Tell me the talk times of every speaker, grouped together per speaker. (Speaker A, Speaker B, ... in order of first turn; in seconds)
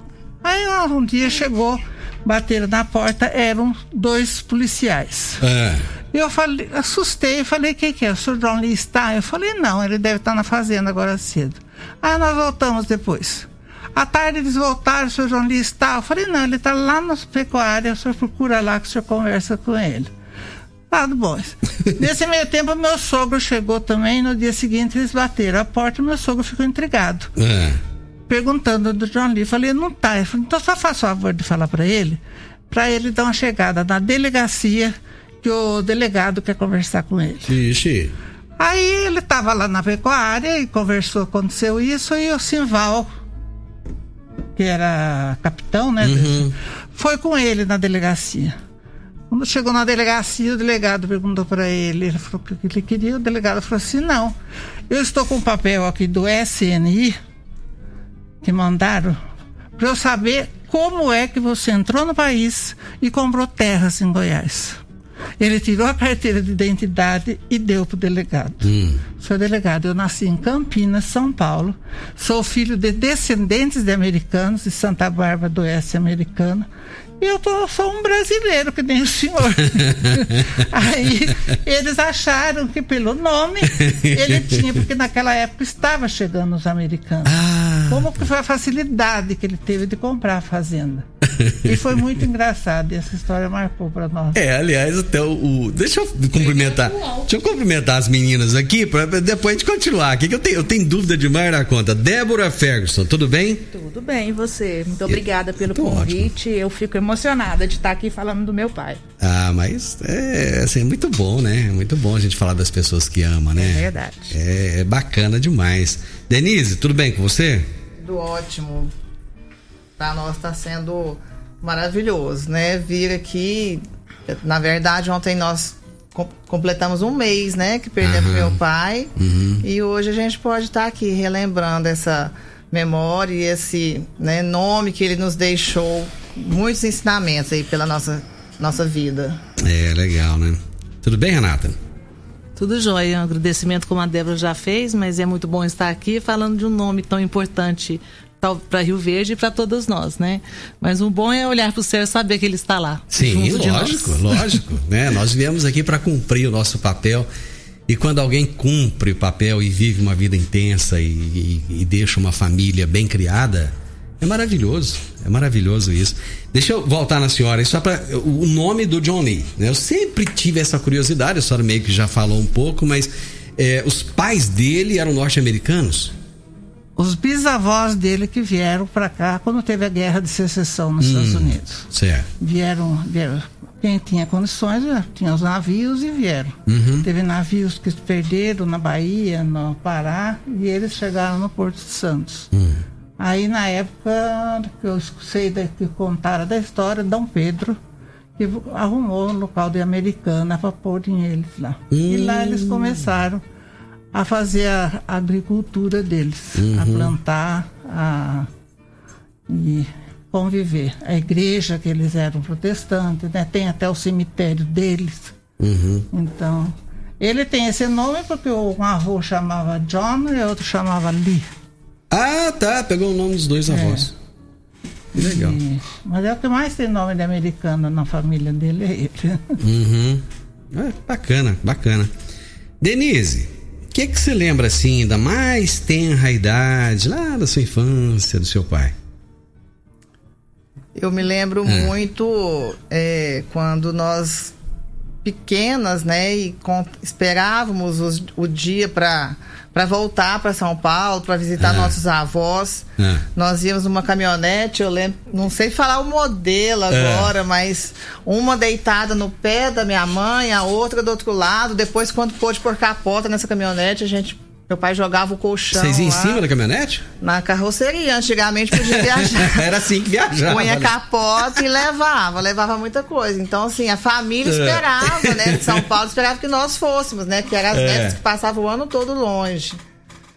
Speaker A: 0.4-5.4, 6.1-20.1, 20.9-27.3, 28.3-37.5, 38.6-43.1, 44.5-48.6, 49.3-54.3, 54.9-57.2, 58.4-59.2, 59.8-64.8, 65.4-76.7, 77.2-91.0, 91.6-94.4, 177.0-181.8, 182.4-192.5, 193.2-197.8, 198.4-203.4, 204.1-208.5, 209.5-215.3, 216.1-221.5, 223.7-224.1, 225.1-229.6
Speaker B: 5.4-5.8, 27.4-27.8, 37.5-38.1, 46.0-46.5, 68.6-69.0, 87.2-88.1, 91.4-91.7, 94.3-103.7, 105.1-106.3, 109.2-117.7, 128.0-128.6, 129.2-129.6, 139.6-141.8, 153.1-157.3, 157.9-176.1, 181.0-182.3, 186.7-187.1, 192.5-192.8, 201.9-203.1, 206.5-207.1, 215.6-216.1, 222.1-224.1, 225.1-225.6, 229.6-232.1, 232.8-238.9, 241.6-241.9, 251.6-251.9, 253.0-253.2, 256.9-257.3, 265.7-267.0, 268.8-271.6, 274.4-275.8, 277.7-278.2
Speaker C: 96.4-97.2, 103.7-109.0, 113.5-114.3
Speaker D: 118.0-118.9, 120.0-129.1, 129.6-139.4, 240.9-244.5, 245.2-266.4, 267.2-269.7, 270.4-279.8
Speaker E: 142.6-154.6